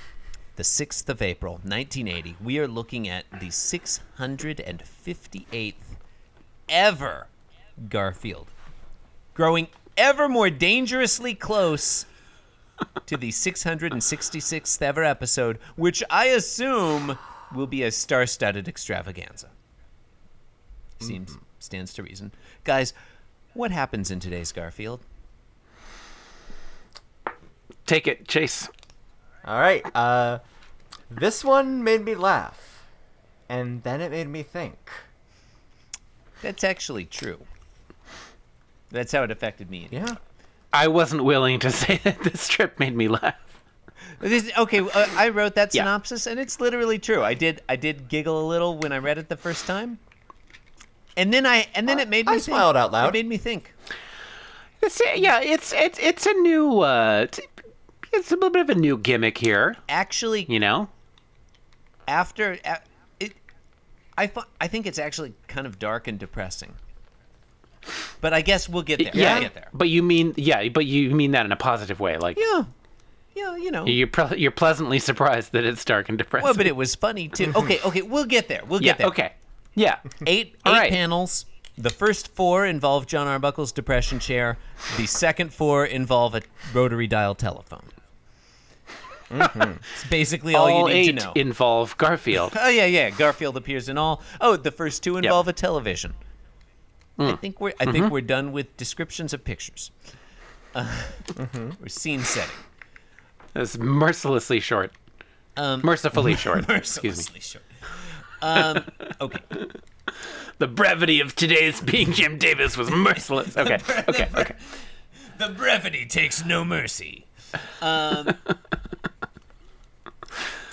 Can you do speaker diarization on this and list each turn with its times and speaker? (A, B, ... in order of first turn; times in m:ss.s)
0:00.6-0:06.0 A
0:06.7-0:08.5 A
0:09.3-0:12.1 A
0:13.1-0:19.5 A
0:21.0-0:22.9 A
0:23.6-0:25.0 A
0:27.9-0:28.7 B
0:29.4-0:30.4 C
0:31.1-0:32.8 C
0:33.5-0:35.0 C
0:36.4-0:37.4 A
0:38.9-0:40.2 A
0:39.9-0:40.2 C
0:40.7-0:43.5 B
0:44.2-0:50.0 A
0:51.2-0:53.7 A
0:51.9-0:53.2 C
0:54.8-0:57.5 B
0:58.1-0:59.8 B
0:59.9-1:00.5 A
1:00.5-1:00.9 B
1:02.1-1:03.4 A
1:04.2-1:06.8 A
1:08.2-1:09.7 A
1:09.0-1:12.4 B
1:09.1-1:09.4 C
1:12.4-1:12.7 A
1:13.3-1:14.0 A
1:13.8-1:16.7 B
1:16.4-1:19.1 A
1:18.8-1:21.0 B
1:20.2-1:27.9 A
1:29.3-1:29.8 C
1:29.9-1:31.4 A
1:30.5-1:32.6 B
1:32.3-1:36.2 A
1:37.2-1:38.1 B
1:37.2-1:39.9 A
1:40.7-1:42.6 A
1:41.4-1:41.7 C
1:43.6-1:44.9 B
1:45.6-1:49.5 A
1:45.8-1:47.3 B
1:50.6-1:54.5 B
1:52.9-1:54.8 A
1:55.3-1:57.3 A
1:57.8-1:58.4 A